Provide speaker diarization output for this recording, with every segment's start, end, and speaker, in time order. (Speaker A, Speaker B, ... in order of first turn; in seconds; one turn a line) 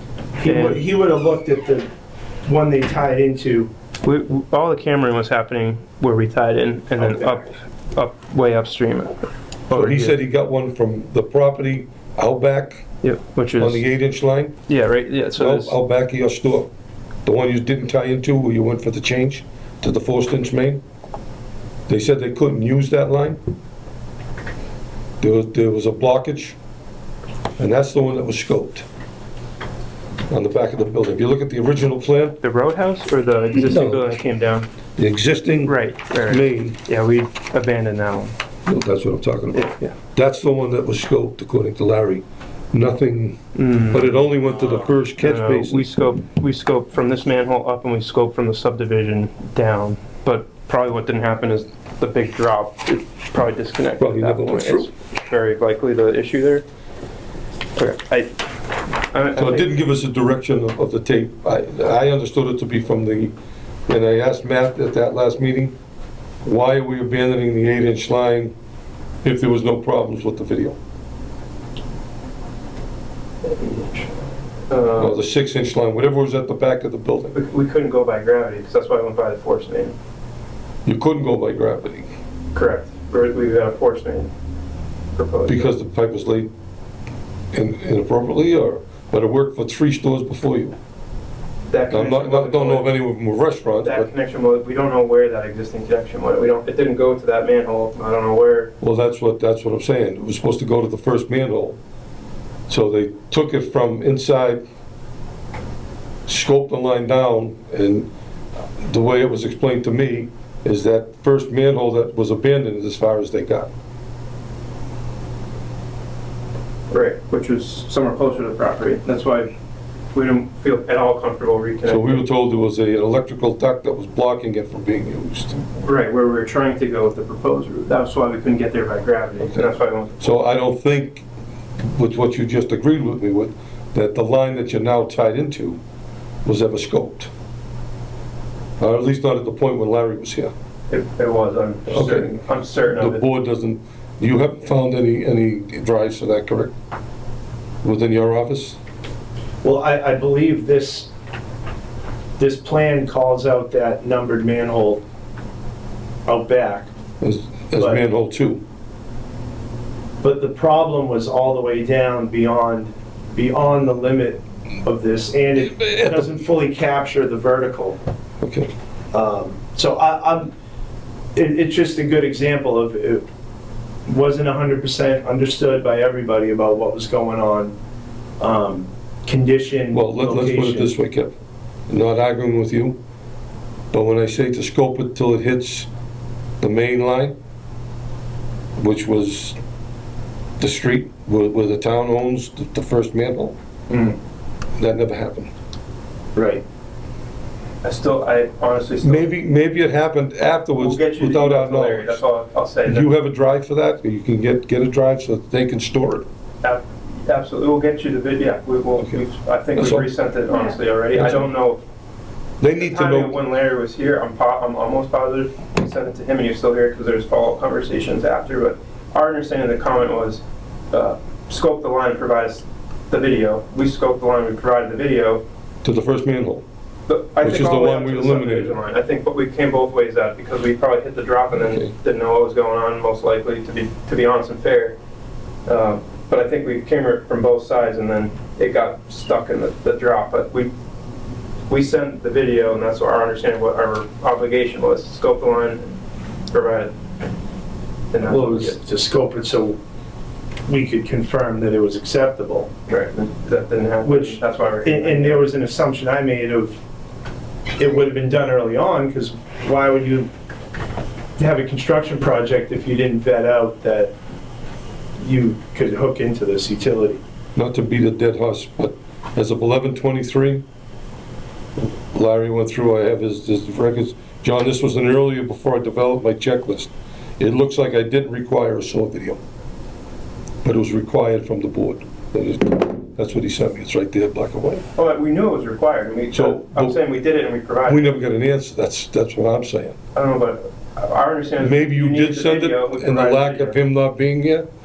Speaker A: 0.4-1.9
Speaker B: 0.4-0.8
Speaker A: 2.5-3.7
Speaker B: 4.0-10.2
Speaker A: 7.0-7.3
Speaker C: 9.7-12.8
Speaker B: 13.0-13.8
Speaker C: 13.6-14.5
Speaker B: 14.7-15.8
Speaker C: 15.4-16.7
Speaker C: 17.2-20.8
Speaker C: 21.9-23.4
Speaker C: 25.2-26.6
Speaker C: 27.6-28.8
Speaker C: 30.3-32.4
Speaker B: 32.4-34.7
Speaker C: 33.7-34.0
Speaker C: 35.0-36.8
Speaker B: 35.6-38.3
Speaker C: 38.6-43.4
Speaker B: 39.5-39.9
Speaker B: 43.5-44.1
Speaker C: 43.9-45.9
Speaker B: 45.2-56.6
Speaker C: 54.0-54.9
Speaker B: 57.8-58.4
Speaker B: 59.0-59.7
Speaker C: 59.4-63.3
Speaker C: 63.9-65.7
Speaker C: 66.4-68.5
Speaker C: 69.2-70.8
Speaker B: 73.4-75.2
Speaker C: 75.0-77.3
Speaker B: 77.3-79.9
Speaker C: 80.8-82.1
Speaker B: 82.5-84.3
Speaker B: 85.1-85.7
Speaker C: 85.5-86.5
Speaker C: 87.5-90.8
Speaker B: 91.7-92.9
Speaker C: 91.9-94.1
Speaker B: 93.8-98.7
Speaker C: 98.8-101.8
Speaker C: 102.7-104.6
Speaker C: 106.3-108.1
Speaker C: 108.8-113.7
Speaker B: 116.9-119.5
Speaker B: 120.1-122.2
Speaker C: 121.8-125.8
Speaker B: 125.8-130.4
Speaker C: 129.4-129.7
Speaker C: 130.2-131.2
Speaker C: 131.8-135.8
Speaker C: 136.4-137.3
Speaker C: 138.8-140.5
Speaker B: 140.9-143.2
Speaker C: 141.9-142.3
Speaker C: 142.9-146.7
Speaker C: 147.8-148.8
Speaker A: 149.6-151.1
Speaker A: 152.4-155.0
Speaker A: 156.3-156.9
Speaker C: 157.2-158.6
Speaker A: 160.2-168.0
Speaker C: 165.8-166.2
Speaker C: 168.4-168.7
Speaker A: 169.1-170.5
Speaker A: 171.3-173.2
Speaker A: 174.1-177.7
Speaker A: 178.4-180.9
Speaker C: 179.9-181.3
Speaker C: 181.9-183.0
Speaker C: 183.9-185.9
Speaker C: 186.6-187.3
Speaker C: 188.8-189.6
Speaker C: 190.6-193.6
Speaker A: 193.9-194.2
Speaker C: 194.8-195.5
Speaker A: 196.3-196.6
Speaker B: 197.8-199.3
Speaker C: 199.0-202.2
Speaker B: 200.8-203.1
Speaker C: 202.8-206.2
Speaker B: 206.6-211.8
Speaker C: 209.8-210.1
Speaker C: 211.1-211.5
Speaker C: 212.6-213.4
Speaker B: 212.8-225.4
Speaker C: 225.8-226.6
Speaker B: 227.1-235.0
Speaker C: 227.4-228.8
Speaker C: 231.6-231.9
Speaker B: 235.7-240.7
Speaker B: 241.7-246.0
Speaker B: 246.5-246.9
Speaker B: 248.1-248.8
Speaker A: 248.2-249.8
Speaker A: 250.7-252.7
Speaker B: 252.9-255.5
Speaker A: 254.0-256.8
Speaker A: 257.8-260.3
Speaker A: 261.4-264.1
Speaker A: 265.2-267.2
Speaker C: 267.5-270.6
Speaker C: 272.1-279.4
Speaker C: 280.6-284.8
Speaker B: 284.9-288.0
Speaker C: 286.3-286.9
Speaker C: 287.9-289.9
Speaker B: 290.1-293.8
Speaker C: 291.6-294.7